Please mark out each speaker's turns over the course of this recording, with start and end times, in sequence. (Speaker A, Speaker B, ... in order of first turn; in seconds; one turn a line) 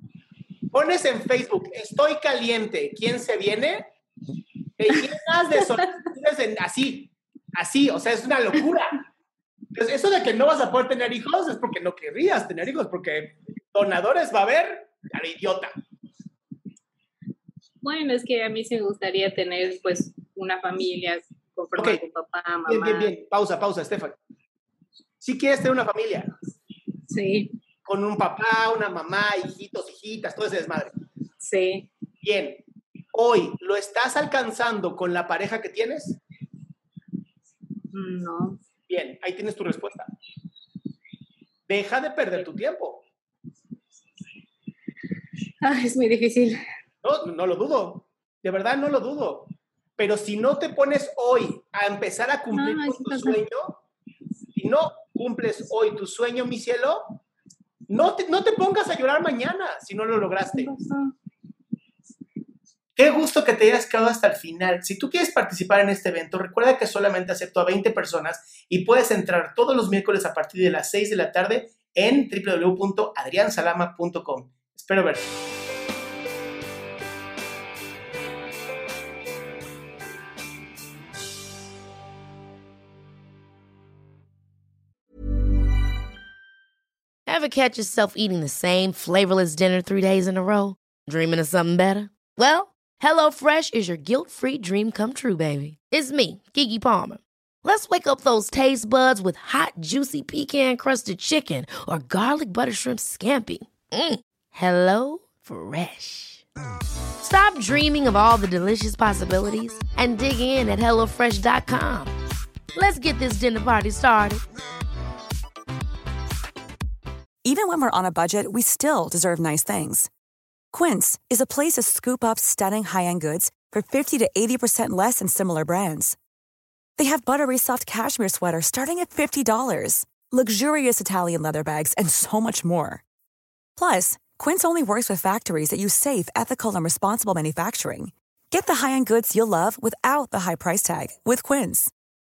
Speaker A: 0.7-3.9
Speaker A: 4.8-9.0
Speaker A: 9.7-15.7
Speaker B: 17.8-23.1
Speaker A: 22.7-24.2
Speaker A: 25.2-26.3
Speaker B: 27.1-27.5
Speaker A: 27.8-30.9
Speaker B: 31.4-31.9
Speaker A: 32.2-32.6
Speaker A: 33.1-36.2
Speaker B: 37.9-38.6
Speaker A: 38.9-40.1
Speaker A: 41.7-43.0
Speaker B: 45.6-46.6
Speaker A: 47.0-53.8
Speaker B: 52.5-53.4
Speaker A: 54.5-57.2
Speaker A: 57.9-60.7
Speaker B: 60.5-61.1
Speaker A: 63.0-75.2
Speaker C: 87.3-106.4
Speaker C: 107.2-112.1
Speaker C: 112.7-114.4
Speaker D: 117.4-120.1
Speaker D: 120.7-126.2
Speaker D: 127.0-133.0
Speaker D: 133.8-141.9